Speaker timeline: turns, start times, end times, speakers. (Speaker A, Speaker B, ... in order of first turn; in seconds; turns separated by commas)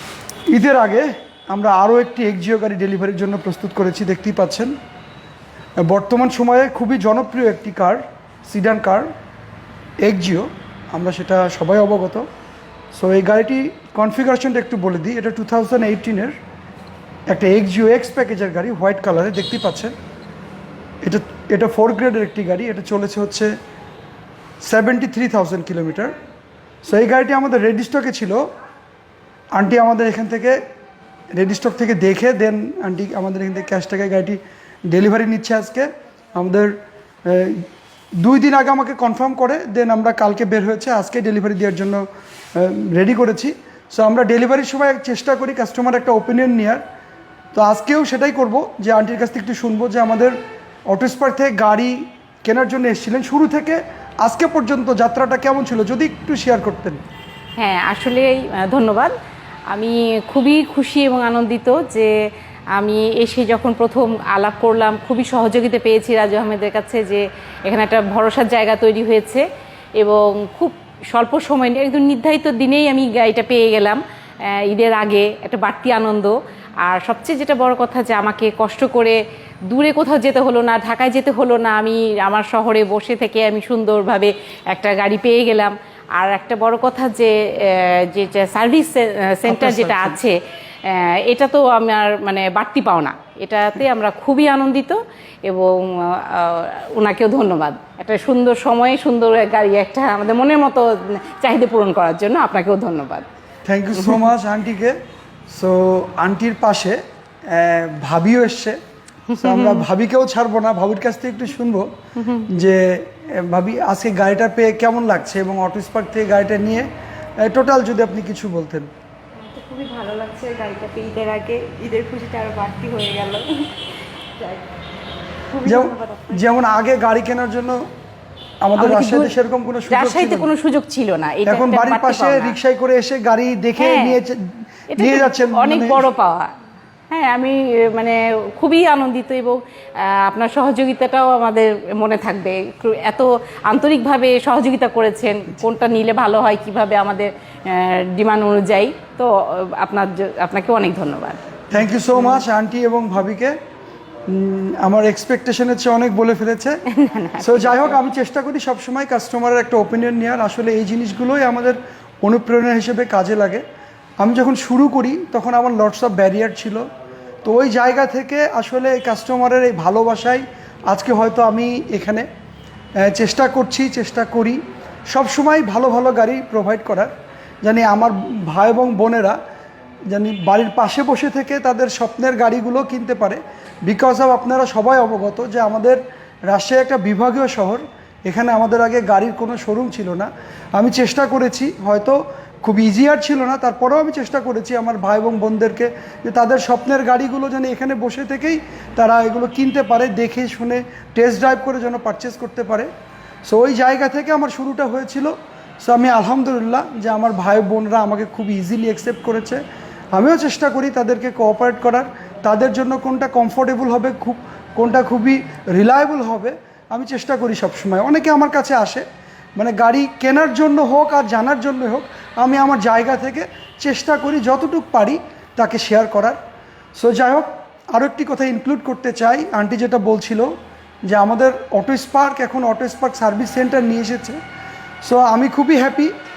Speaker A: 0.5-4.8, Speaker A: 5.8-9.1, Speaker A: 10.0-12.3, Speaker A: 12.9-16.4, Speaker A: 17.3-19.9, Speaker A: 21.0-23.5, Speaker A: 24.6-26.1, Speaker A: 26.9-28.5, Speaker A: 29.6-30.6, Speaker A: 31.3-36.7, Speaker A: 37.2-37.7, Speaker A: 38.2-46.8, Speaker A: 47.5-50.4, Speaker A: 50.9-57.0, Speaker B: 57.6-59.1, Speaker B: 59.7-69.5, Speaker B: 70.0-103.3, Speaker A: 89.5-90.2, Speaker A: 103.7-105.0, Speaker B: 104.0-104.2, Speaker A: 105.5-108.8, Speaker B: 109.3-109.9, Speaker A: 109.3-111.9, Speaker B: 112.2-112.5, Speaker A: 112.5-116.9, Speaker A: 117.4-118.9, Speaker C: 119.4-123.5, Speaker C: 124.4-124.7, Speaker C: 125.5-126.4, Speaker A: 125.6-127.9, Speaker A: 128.6-130.5, Speaker B: 128.8-129.3, Speaker B: 129.9-132.6, Speaker A: 131.5-136.1, Speaker B: 133.8-134.2, Speaker B: 134.9-136.5, Speaker B: 137.1-151.4, Speaker A: 151.7-153.6, Speaker B: 152.0-152.4, Speaker A: 154.3-156.8, Speaker B: 156.9-158.0, Speaker A: 157.4-163.6, Speaker A: 164.2-166.9, Speaker A: 167.4-172.3, Speaker A: 173.0-179.4, Speaker A: 180.1-202.9, Speaker A: 203.5-209.6, Speaker A: 210.1-219.1, Speaker A: 219.6-226.4, Speaker A: 227.0-230.5, Speaker A: 231.1-234.4, Speaker A: 235.0-236.1